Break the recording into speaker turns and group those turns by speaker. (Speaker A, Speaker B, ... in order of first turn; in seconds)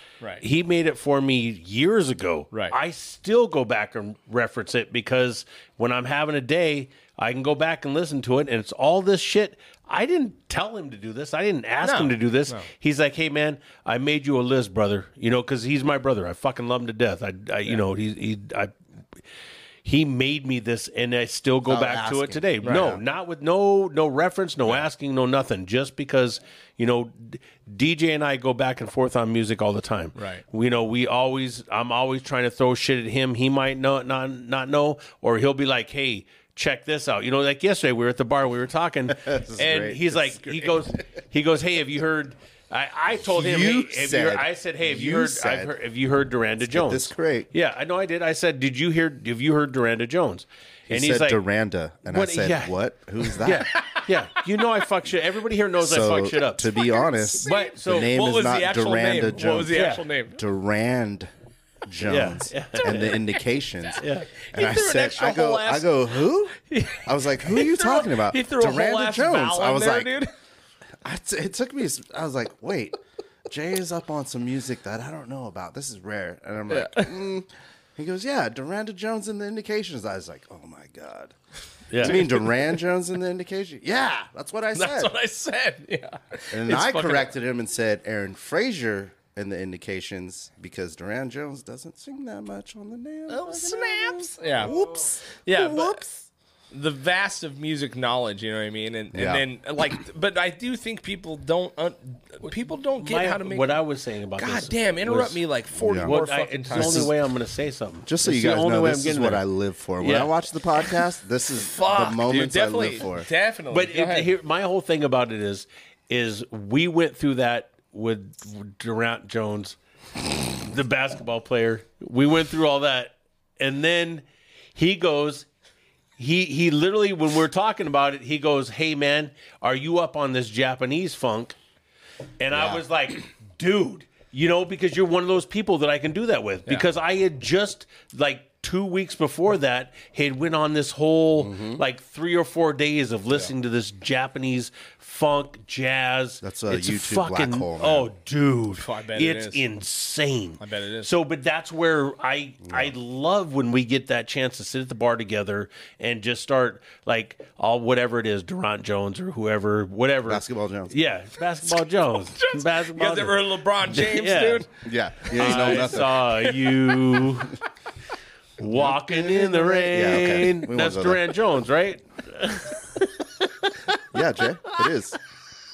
Speaker A: 0.4-19.2, 19.8-51.4, 52.1-52.8, 53.3-58.1, 59.7-60.0, 62.0-63.2, 64.0-64.3, 81.9-82.3, 102.4-105.4, 106.0-109.4, 110.0-110.3, 113.7-125.5, 126.2-131.6, 132.4-164.7, 165.3-167.6, 168.6-173.3
Speaker B: 11.8-12.7, 22.6-23.0, 30.2-30.4, 53.7-54.4, 57.4-60.4, 64.4-66.0, 66.7-70.3, 76.7-77.2, 84.8-87.3, 93.3-96.1, 96.7-103.8, 104.4-107.1, 111.7-114.3, 148.7-149.6, 150.6-151.1, 162.4-164.7, 165.3-167.3
Speaker C: 21.7-23.0, 39.2-41.0, 43.2-45.7, 46.7-47.5, 50.9-53.7, 55.8-61.3, 61.9-70.1, 71.0-81.3, 82.0-85.1, 86.5-96.1, 99.1-99.4, 105.8-106.2, 106.7-107.1, 108.1-113.3, 132.5-132.8, 141.4-141.8, 146.4-148.1, 152.6-152.9, 160.3-160.9, 164.8-166.2, 168.7-171.2, 174.1-175.2